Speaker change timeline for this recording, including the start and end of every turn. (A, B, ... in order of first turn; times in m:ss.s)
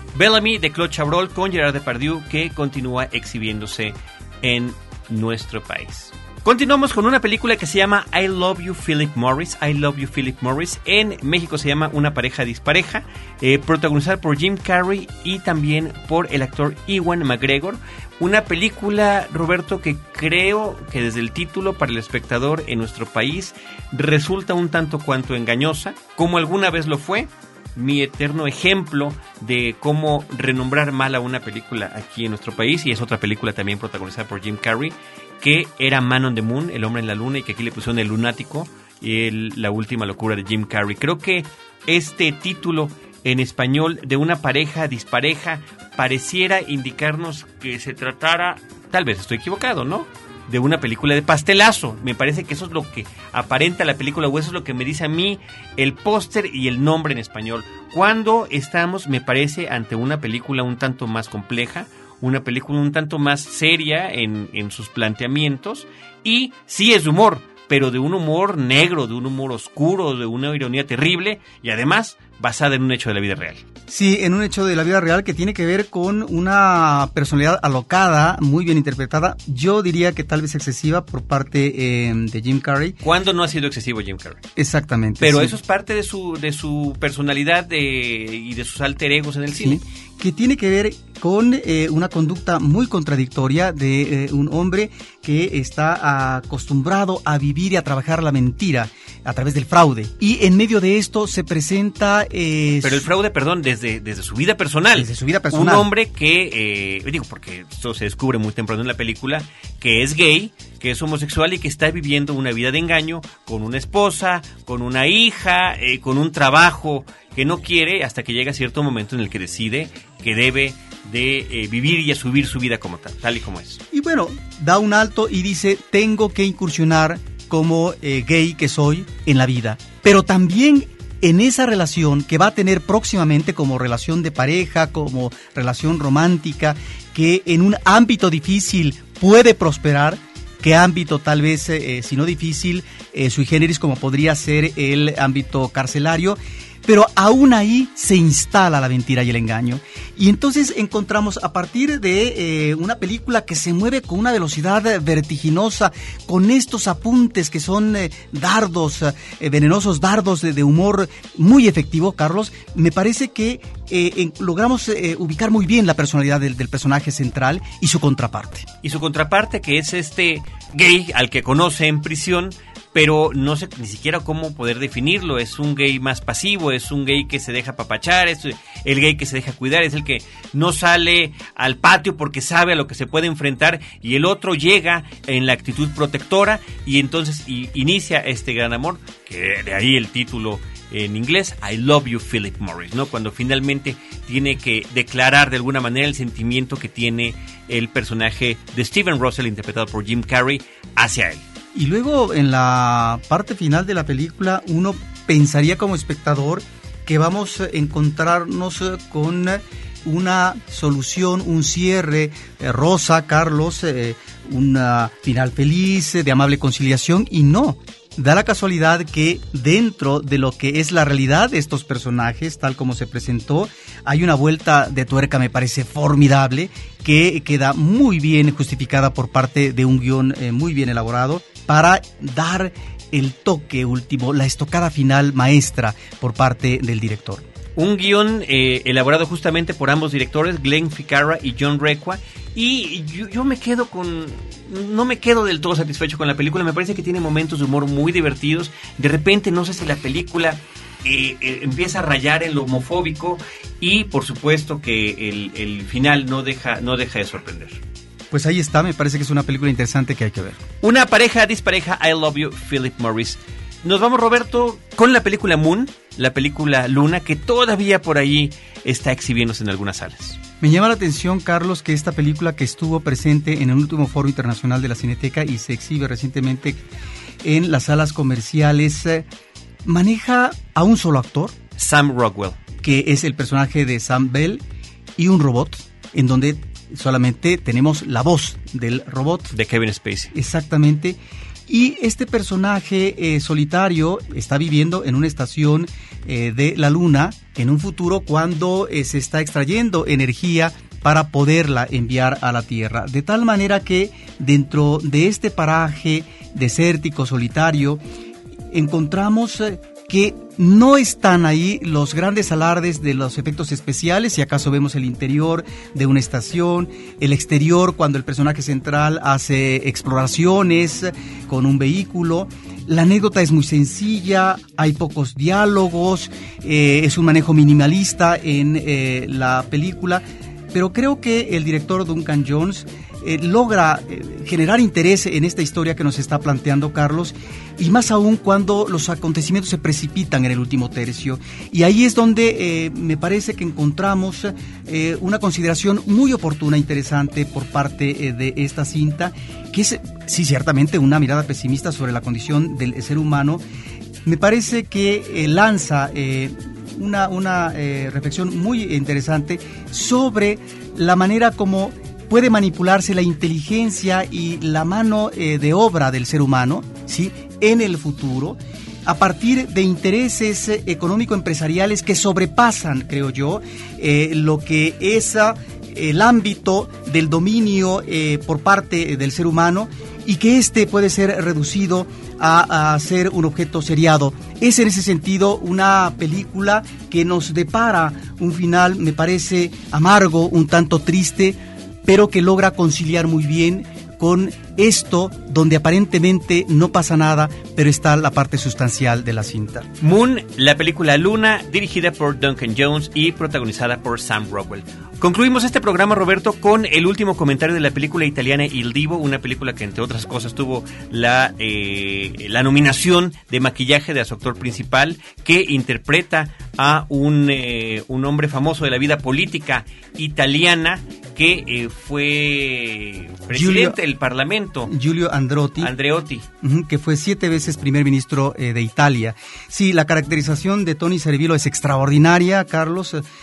0:00.1-1:13.6 A
1:13.9-1:23.0 B
1:23.0-1:24.4 A
1:24.6-1:25.6 B
1:25.2-1:29.8 A
1:29.5-1:43.1 B
1:42.8-2:03.8 A
1:44.9-1:45.9 B
2:03.9-2:48.7 B
2:48.8-3:21.4 A
3:21.7-3:57.4 B
3:57.8-4:17.8 A
4:18.3-4:20.6 B
4:20.8-4:30.4 A
4:30.6-4:36.8 B
4:37.4-4:39.3 B
4:39.8-4:41.5 B
4:41.8-4:42.6 A
4:42.8-4:44.6 B
4:45.2-4:49.5 B
4:49.5-4:50.3 A
4:50.3-5:08.0 B
5:08.7-5:53.6 B
5:54.2-6:39.9 B
6:40.0-7:04.9 A
7:03.5-7:04.0 B
7:04.9-7:05.9 B
7:05.8-7:06.4 A
7:06.6-7:13.2 B